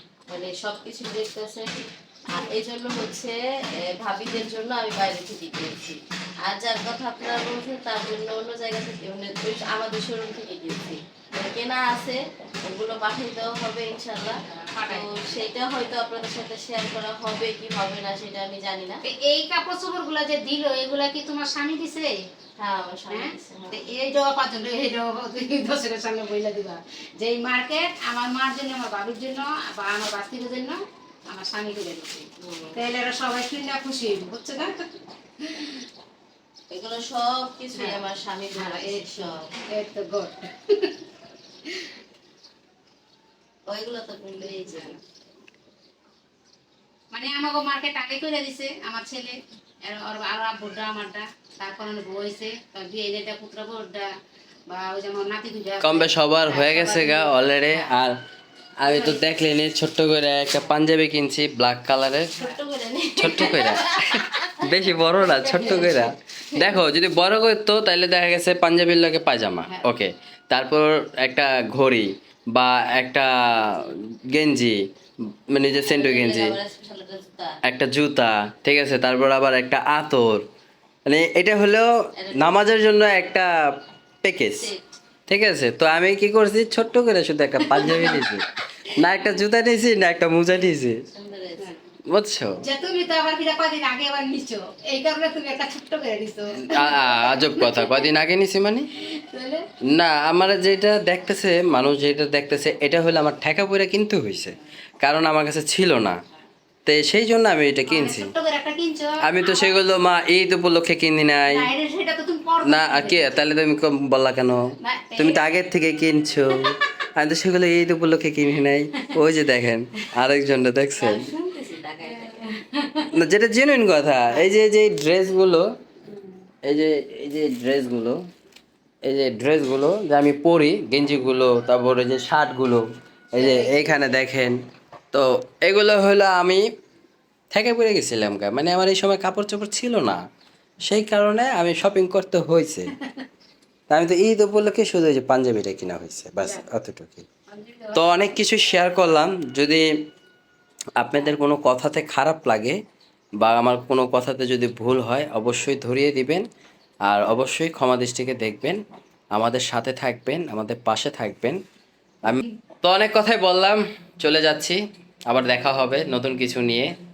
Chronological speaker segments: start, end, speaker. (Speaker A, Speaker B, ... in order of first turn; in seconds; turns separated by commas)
Speaker A: 0.3-19.0, Speaker B: 14.7-15.2, Speaker B: 19.0-22.2, Speaker A: 22.6-23.9, Speaker B: 23.1-35.9, Speaker A: 32.4-32.8, Speaker A: 36.7-39.5, Speaker B: 37.7-38.0, Speaker B: 38.5-41.0, Speaker B: 41.6-41.9, Speaker A: 43.7-45.0, Speaker B: 47.1-54.1, Speaker B: 54.7-57.9, Speaker C: 55.8-58.2, Speaker A: 56.7-57.0, Speaker C: 58.8-62.3, Speaker A: 62.4-64.7, Speaker C: 63.2-74.9, Speaker B: 65.6-65.9, Speaker C: 75.5-76.6, Speaker A: 75.7-77.6, Speaker C: 77.6-80.4, Speaker C: 81.0-83.5, Speaker A: 82.2-82.8, Speaker C: 84.2-84.7, Speaker C: 85.3-91.0, Speaker B: 87.7-88.2, Speaker A: 91.1-91.7, Speaker C: 92.1-92.6, Speaker B: 92.6-98.1, Speaker C: 96.6-98.9, Speaker B: 99.0-99.7, Speaker C: 99.9-106.2, Speaker C: 106.8-108.3, Speaker B: 107.9-109.8, Speaker C: 109.2-111.7, Speaker B: 111.5-113.4, Speaker C: 112.6-121.3, Speaker B: 114.8-115.6, Speaker A: 120.9-122.6, Speaker B: 122.0-123.1, Speaker C: 123.1-125.7, Speaker B: 126.1-126.4, Speaker C: 126.6-128.3, Speaker C: 129.0-134.6, Speaker B: 133.3-134.0, Speaker C: 135.1-136.7, Speaker C: 137.5-140.2, Speaker C: 140.8-142.9, Speaker C: 143.9-147.2, Speaker B: 147.5-148.1, Speaker C: 147.9-149.9, Speaker C: 151.0-152.8, Speaker C: 153.4-156.4, Speaker C: 157.1-158.8, Speaker C: 159.3-161.6, Speaker C: 162.2-166.9